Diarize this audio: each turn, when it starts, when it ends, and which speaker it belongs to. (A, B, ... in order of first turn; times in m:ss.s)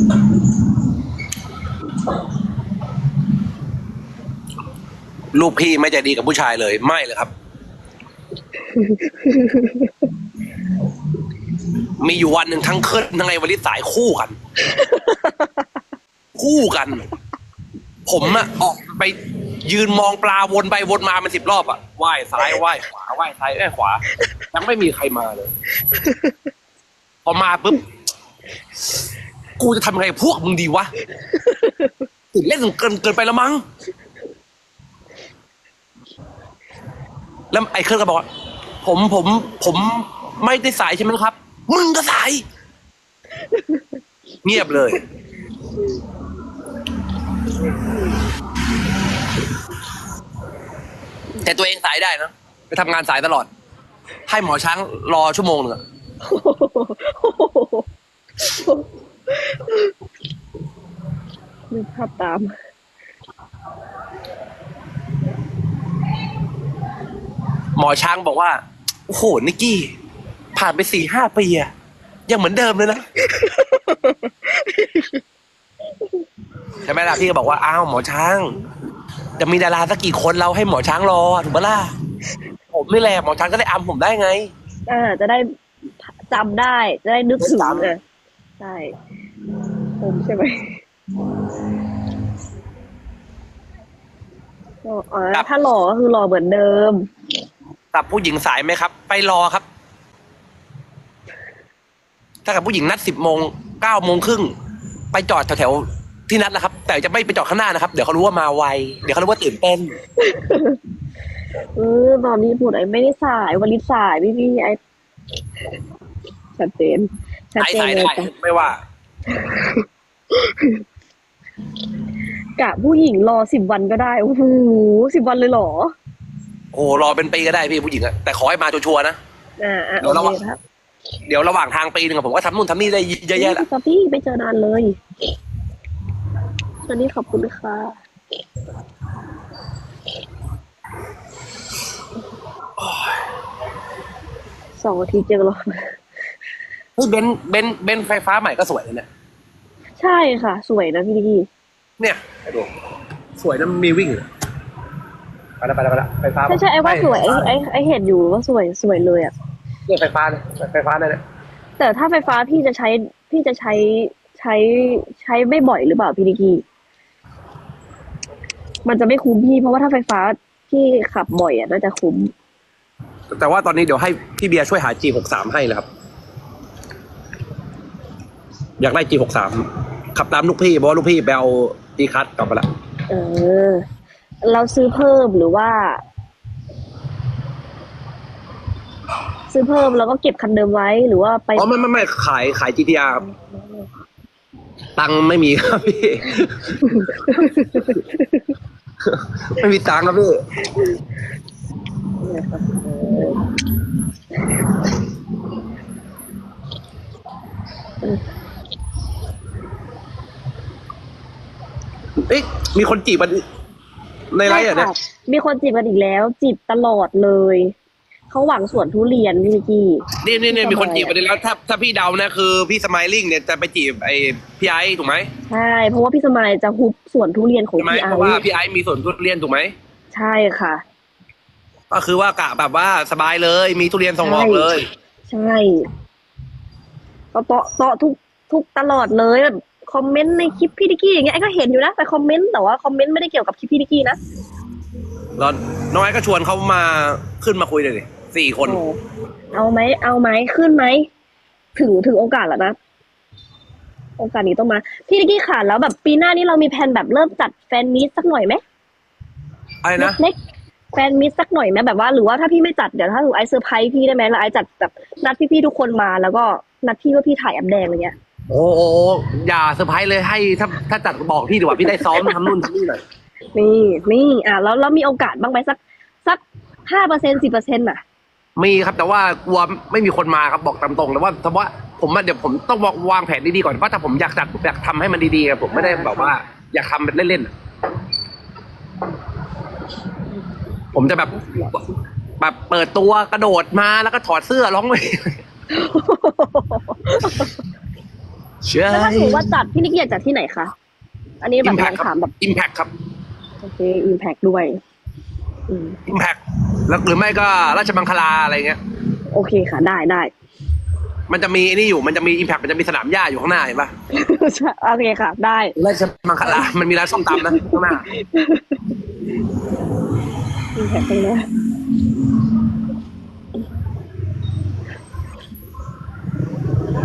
0:05.3-0:07.3 A
0:08.7-0:09.9 B
0:12.0-0:14.4 A
0:14.7-0:15.6 B
0:16.4-0:17.0 A
0:18.0-0:25.5 A
0:25.9-0:26.4 B
0:27.2-0:27.8 A
0:29.6-0:30.9 A
0:31.2-0:32.0 B
0:32.3-0:33.6 A
0:37.5-0:38.2 A
0:38.8-0:42.4 A
0:43.4-0:44.0 B
0:44.4-0:45.0 A
0:51.4-0:53.5 A
0:54.3-0:55.8 A
0:56.2-0:57.9 B
0:58.4-0:59.9 B
1:01.7-1:02.5 B
1:07.8-1:09.9 A
1:10.5-1:11.7 A
1:12.3-1:13.0 A
1:13.3-1:15.2 B
1:16.8-1:18.5 A
1:19.4-1:21.9 A
1:22.7-1:24.5 A
1:24.9-1:25.5 B
1:26.1-1:28.0 B
1:27.4-1:27.9 A
1:28.6-1:28.9 B
1:30.0-1:30.8 B
1:34.8-1:37.1 B
1:37.9-1:39.6 A
1:42.4-1:44.5 A
1:45.1-1:50.0 A
1:50.2-1:50.8 B
1:51.8-1:54.8 B
1:56.6-1:58.3 B
1:57.6-1:58.8 A
1:59.3-2:00.8 B
2:02.6-2:05.9 B
2:06.7-2:09.2 A
2:09.6-2:10.6 B
2:10.0-2:10.4 A
2:11.3-2:13.6 A
2:13.3-2:15.0 B
2:16.9-2:18.0 B
2:22.8-2:23.2 A
2:24.8-2:26.0 B
2:27.0-2:29.1 A
2:30.0-2:31.5 B
2:32.0-2:32.7 A
2:33.4-2:34.2 A
2:35.6-2:37.5 A
2:36.5-2:39.3 B
2:39.9-2:41.2 A
2:41.8-2:46.6 B
2:48.8-2:52.3 B
2:53.3-2:55.9 A
2:58.8-3:02.7 A
3:03.1-3:03.8 B
3:04.4-3:06.0 B
3:09.5-3:11.7 B
3:11.6-3:13.2 A
3:15.0-3:16.9 A
3:16.8-3:18.4 B
3:19.0-3:20.4 A
3:22.2-3:23.4 B
3:32.2-3:33.4 A
3:34.3-3:34.9 A
3:34.4-3:37.8 B
3:38.3-3:41.2 B
3:40.2-3:45.3 A
3:45.5-3:48.4 B
3:47.8-3:49.7 A
3:50.1-3:50.8 B
3:51.9-3:54.9 A
3:54.2-3:54.7 B
3:55.3-3:55.9 B
3:57.3-4:04.2 B
4:05.4-4:08.8 A
4:08.6-4:09.0 B
4:09.5-4:11.1 B
4:11.7-4:12.8 B
4:14.2-4:18.6 B
4:19.8-4:20.2 A
4:20.0-4:20.4 B
4:20.9-4:28.1 B
4:28.5-4:33.0 A
4:31.8-4:32.5 B
4:33.5-4:38.0 B
4:38.6-4:47.5 A
4:45.7-4:46.3 B
4:50.9-4:51.8 A
4:51.0-4:52.0 B
4:52.4-4:55.4 A
4:55.7-4:57.6 B
4:58.6-4:59.6 A
4:58.9-5:00.7 B
5:01.4-5:02.3 B
5:01.6-5:02.9 A
5:03.6-5:04.8 B
5:05.7-5:06.0 B
5:06.0-5:08.8 A
5:09.3-5:10.3 B
5:11.3-5:13.9 A
5:14.1-5:15.8 B
5:15.8-5:18.0 A
5:16.4-5:16.7 B
5:17.3-5:18.9 B
5:20.7-5:21.5 B